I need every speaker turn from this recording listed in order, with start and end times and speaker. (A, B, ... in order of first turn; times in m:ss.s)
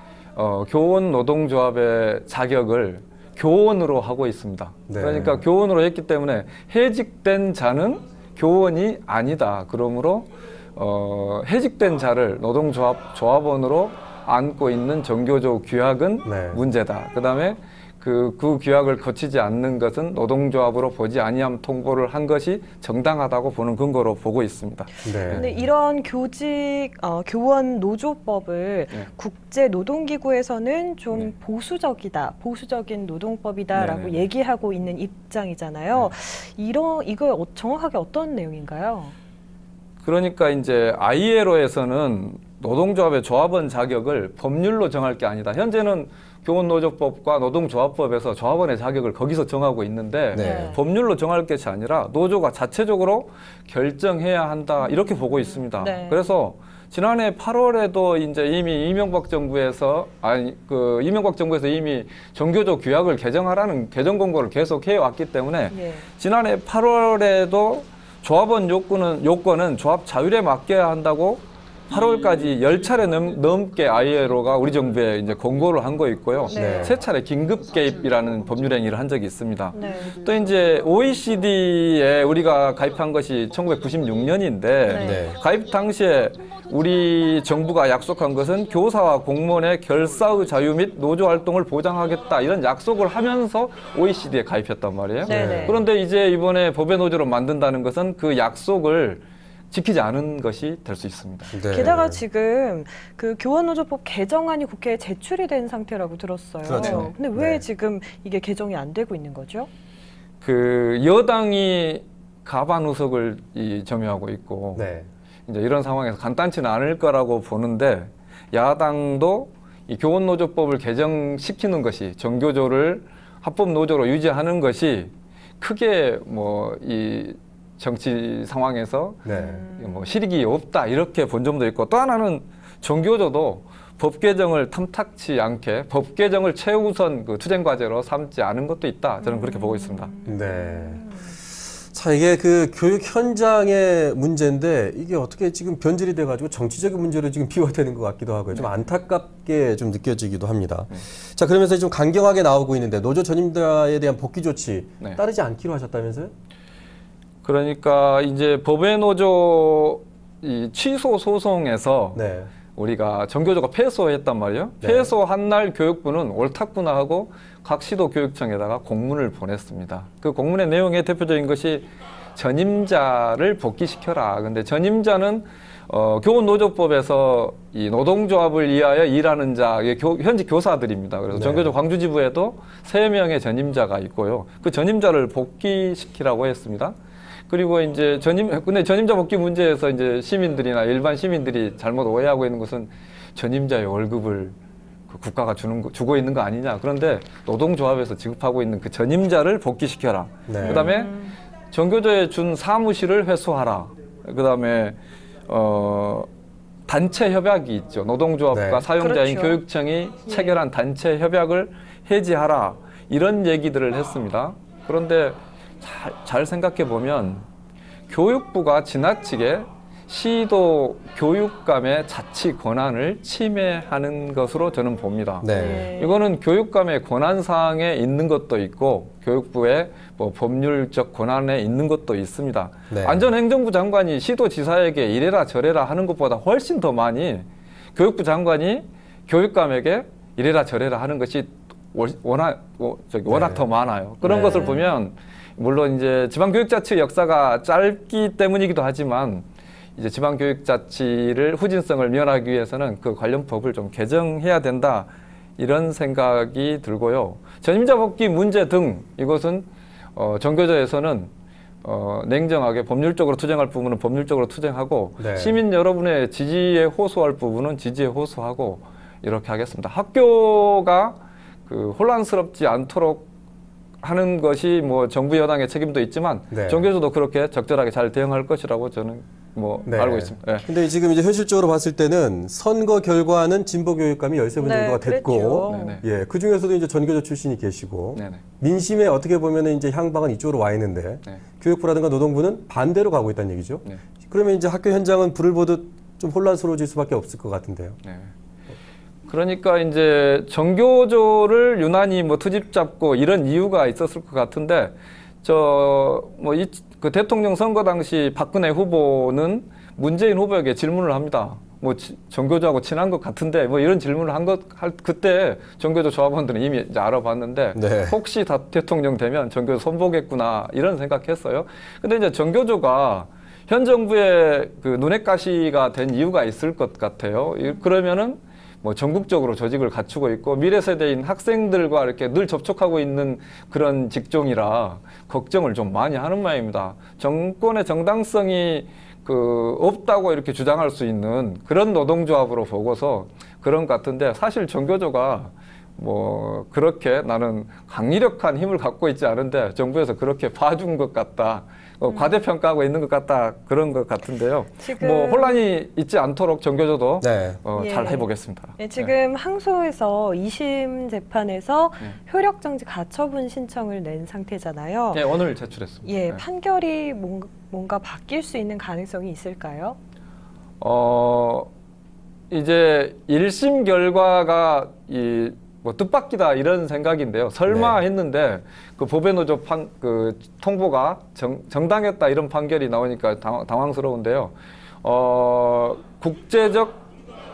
0:00.4-0:25.4 A
0:04.9-0:05.4 B
0:16.2-0:16.6 B
0:25.0-0:25.7 B
0:25.3-0:39.1 C
0:33.7-0:34.3 A
0:40.0-1:41.8 A
0:50.3-0:50.8 B
0:50.4-0:50.8 C
0:54.8-0:56.2 C
1:05.7-1:06.1 C
1:16.5-1:17.0 C
1:16.5-1:17.0 B
1:19.7-1:20.2 C
1:24.8-1:25.3 C
1:25.0-1:25.4 B
1:35.2-1:35.8 C
1:35.3-1:35.8 B
1:41.5-1:42.2 B
1:41.7-1:49.7 C
1:46.6-1:47.6 B
1:46.8-1:47.1 A
1:50.4-1:54.8 A
1:54.8-1:55.1 B
1:55.5-2:09.2 A
2:09.2-2:09.6 B
2:09.3-2:10.1 C
2:09.7-2:20.2 A
2:19.2-2:21.4 C
2:20.2-2:21.2 B
2:21.7-2:36.3 B
2:37.4-2:42.2 A
2:42.1-2:42.5 B
2:42.7-3:06.9 A
2:44.8-2:45.1 B
3:01.3-3:01.7 B
3:07.5-3:14.6 A
3:15.1-3:21.1 A
3:20.5-3:20.9 B
3:20.6-3:21.4 C
3:21.7-3:26.3 A
3:26.9-3:37.4 A
3:28.5-3:28.8 B
3:29.0-3:29.6 C
3:30.3-3:30.6 C
3:38.1-4:09.4 A
3:45.4-3:45.9 B
3:45.5-3:46.2 C
3:52.9-3:53.3 B
4:03.2-4:03.7 B
4:04.2-4:04.7 B
4:04.6-4:04.9 C
4:10.0-4:21.3 A
4:21.8-4:33.3 A
4:25.2-4:25.6 B
4:34.0-4:40.7 A
4:36.5-4:36.9 B
4:39.9-4:58.0 B
4:44.6-4:46.0 C
4:45.7-4:46.0 A
4:48.1-4:48.4 A
4:58.0-4:58.3 A
4:59.3-5:59.1 A
5:17.7-5:18.2 B
5:52.1-5:52.4 C
5:54.8-5:55.6 C
5:57.2-5:57.6 B
5:57.7-6:05.3 C
6:05.1-6:06.4 A
6:06.0-6:10.0 C
6:10.8-6:11.7 A
6:12.5-6:27.0 A
6:17.7-6:18.0 B